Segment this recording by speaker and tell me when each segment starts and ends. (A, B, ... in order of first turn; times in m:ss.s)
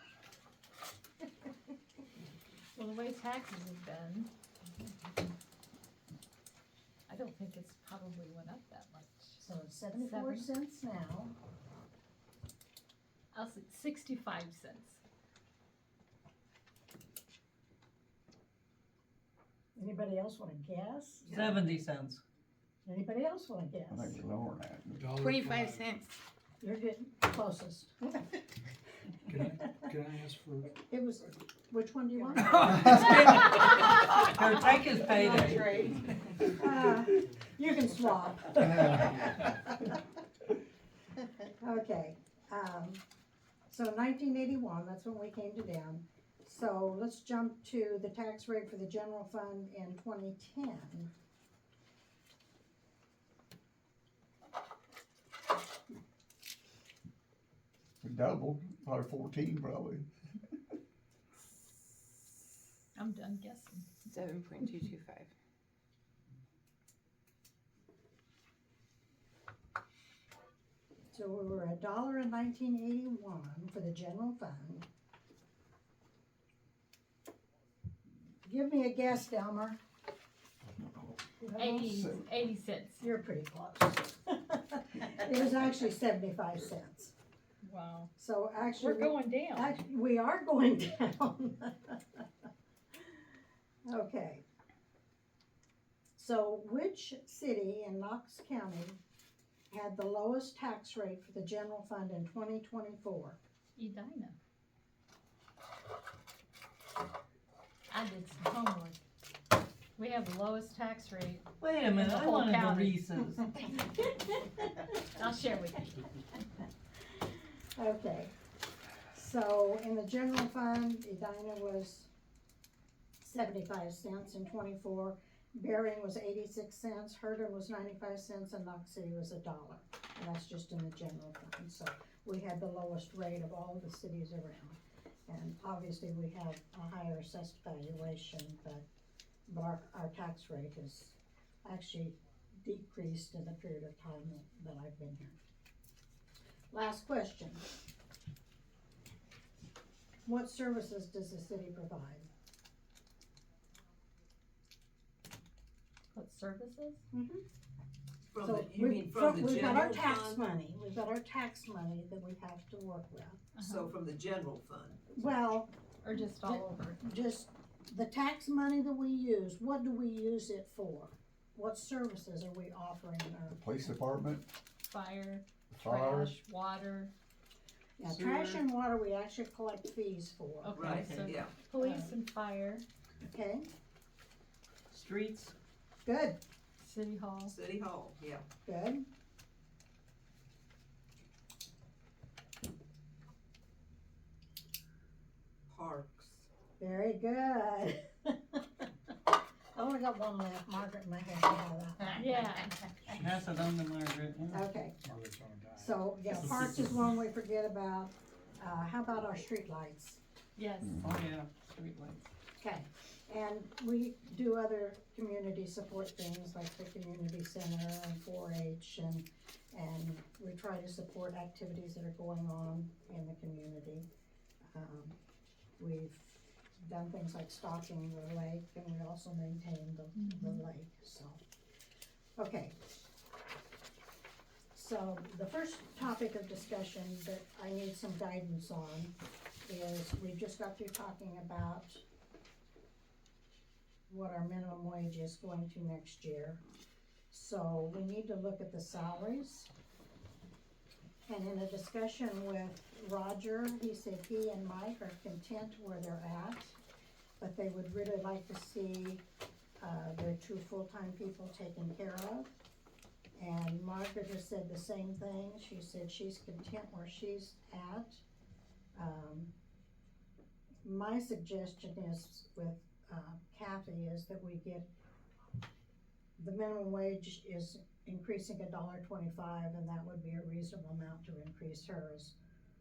0:02.8-0:04.3 A
0:07.1-0:09.4 A
0:09.4-0:11.3 B
0:10.0-0:10.5 A
0:13.3-0:15.0 A
0:19.8-0:21.3 B
0:21.2-0:22.2 C
0:22.8-0:24.2 B
0:23.9-0:25.1 D
0:25.0-0:26.0 E
0:25.1-0:26.1 F
0:26.6-0:28.4 B
0:29.3-0:30.8 E
0:29.5-0:29.9 B
0:30.8-0:33.5 B
0:32.9-0:36.0 C
0:35.2-0:36.0 F
0:35.2-0:35.6 B
0:35.4-0:36.1 E
0:36.4-0:40.0 B
0:38.9-0:39.2 E
0:41.6-0:43.0 B
0:43.7-0:51.1 B
0:58.0-1:00.0 D
1:02.9-1:04.0 A
1:04.1-1:05.3 F
1:11.1-1:14.9 B
1:18.4-1:19.8 B
1:21.4-1:22.0 B
1:21.6-1:23.0 A
1:23.0-1:27.1 B
1:27.6-1:28.1 A
1:28.2-1:32.0 B
1:28.8-1:29.8 A
1:33.9-1:34.4 B
1:36.2-1:39.0 B
1:39.7-1:43.4 B
1:43.8-1:44.4 A
1:47.9-1:49.0 A
1:50.0-1:53.1 A
1:51.6-1:53.5 C
1:54.9-1:56.4 A
1:57.8-1:58.4 B
1:59.1-2:02.1 B
2:03.2-2:18.8 B
2:19.5-2:25.4 B
2:26.7-2:27.6 B
2:30.3-2:32.3 B
2:36.1-2:37.0 A
2:37.1-2:37.4 B
2:38.3-2:40.4 G
2:38.4-2:43.4 B
2:43.6-2:43.9 A
2:43.6-2:45.1 G
2:45.2-2:45.7 B
2:46.0-2:47.0 A
2:46.4-2:53.6 B
2:53.6-2:54.4 D
2:54.9-2:57.1 A
2:55.8-2:56.3 D
2:58.0-3:00.9 B
2:58.1-2:58.6 C
3:00.6-3:02.8 A
3:00.8-3:01.5 G
3:01.0-3:01.3 C
3:01.8-3:02.1 B
3:03.2-3:03.7 B
3:04.9-3:05.5 C
3:06.0-3:06.4 B
3:06.8-3:07.6 A
3:07.5-3:08.4 G
3:08.6-3:09.1 B
3:15.7-3:16.5 G
3:16.8-3:18.6 B
3:19.7-3:22.3 B
3:22.1-3:22.7 A
3:23.1-3:24.6 C
3:24.5-3:25.0 B
3:25.0-3:26.7 E
3:25.8-3:30.2 B
3:30.6-3:31.0 A
3:31.0-3:32.3 C
3:32.6-3:44.1 B
3:44.7-3:45.2 B
3:45.8-3:51.4 B
3:50.2-3:50.6 A
3:52.4-3:52.8 B
3:54.7-4:02.0 B
4:04.1-4:06.6 B
4:07.3-4:09.7 B
4:11.3-4:16.8 B
4:17.4-4:19.2 B
4:19.8-4:22.5 B
4:23.4-4:28.2 B
4:28.9-4:29.5 B
4:30.8-4:34.9 B
4:36.4-4:42.4 B